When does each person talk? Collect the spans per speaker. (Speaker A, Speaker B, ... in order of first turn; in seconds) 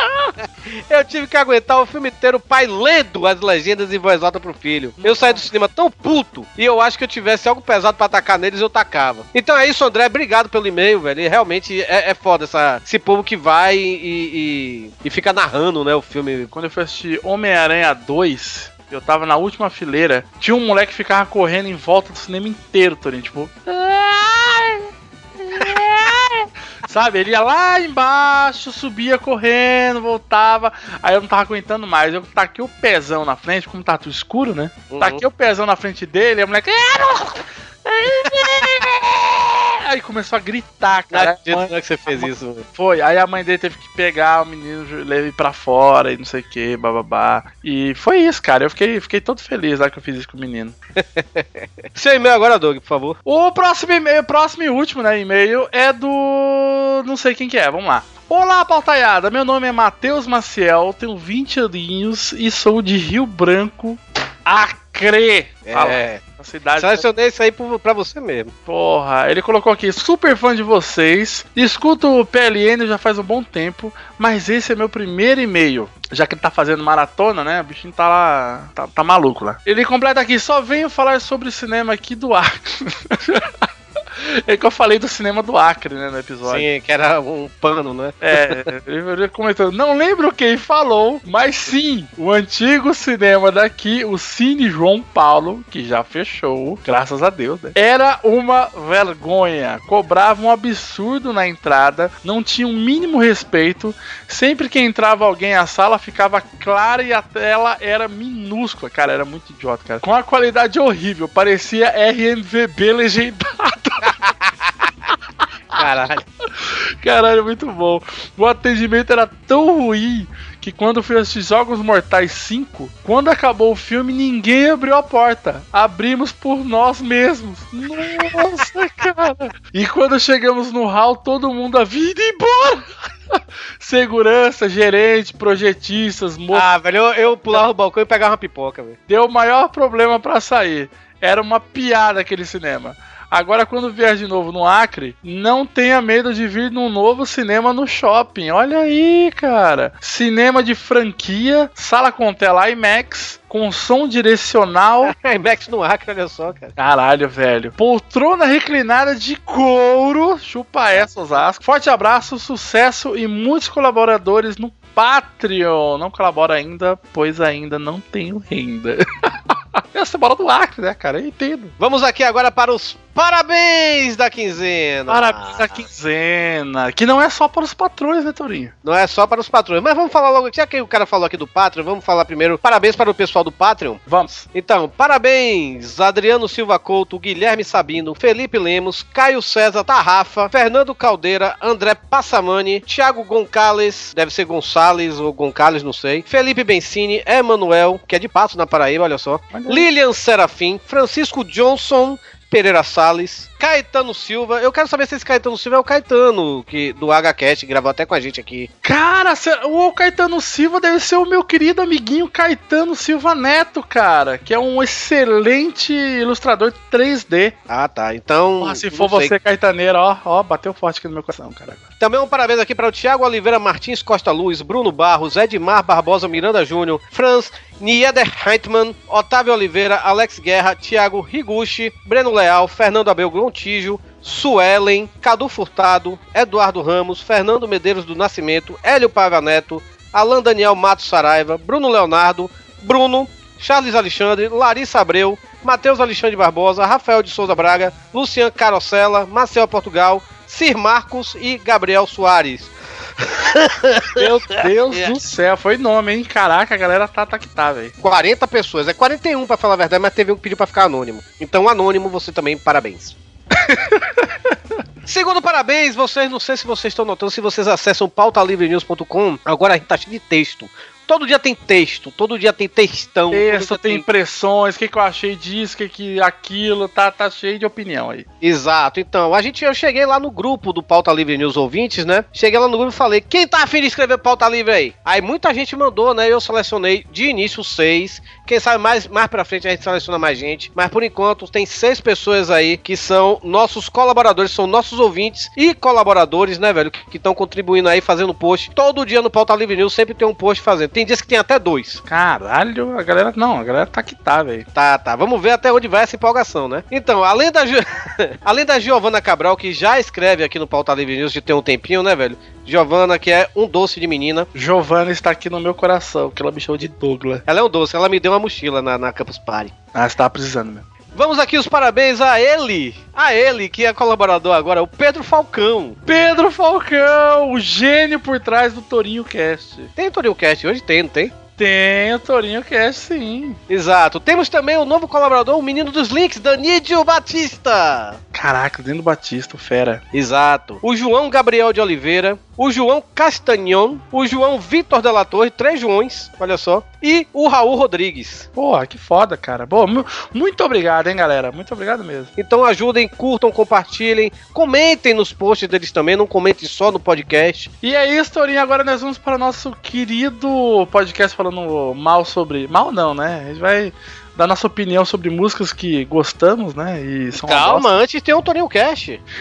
Speaker A: 0.8-16.5, 34.9-35.2, 41.1-42.6, 51.0-53.2, 65.7-66.2, 66.8-68.5, 86.4-88.6, 115.7-116.2, 136.5-139.0, 155.0-156.7, 171.8-175.8, 178.8-184.0, 184.5-208.7, 217.7-219.3, 222.0-252.7, 253.4-255.1, 258.0-263.1, 265.1-274.0, 278.4-302.0, 304.7-314.5, 317.5-319.7, 321.1-326.0, 329.9-331.3, 333.7-338.2, 340.1-348.5, 352.4-357.7, 367.3-369.2
Speaker B: 5.0-5.5, 16.5-24.9, 25.4-50.7, 53.2-67.0, 68.7-83.5, 84.2-86.7, 88.2-114.1, 116.6-136.6, 139.1-155.1, 156.8-169.0, 169.9-171.7, 175.1-178.7, 184.1-184.4, 199.5-199.9, 208.8-217.5, 218.6-221.9, 254.2-257.9, 263.7-264.2, 273.3-278.2, 302.1-304.6, 314.5-317.4, 319.9-320.8, 326.1-329.9, 331.6-333.6, 338.3-340.0, 348.6-352.3, 357.8-367.9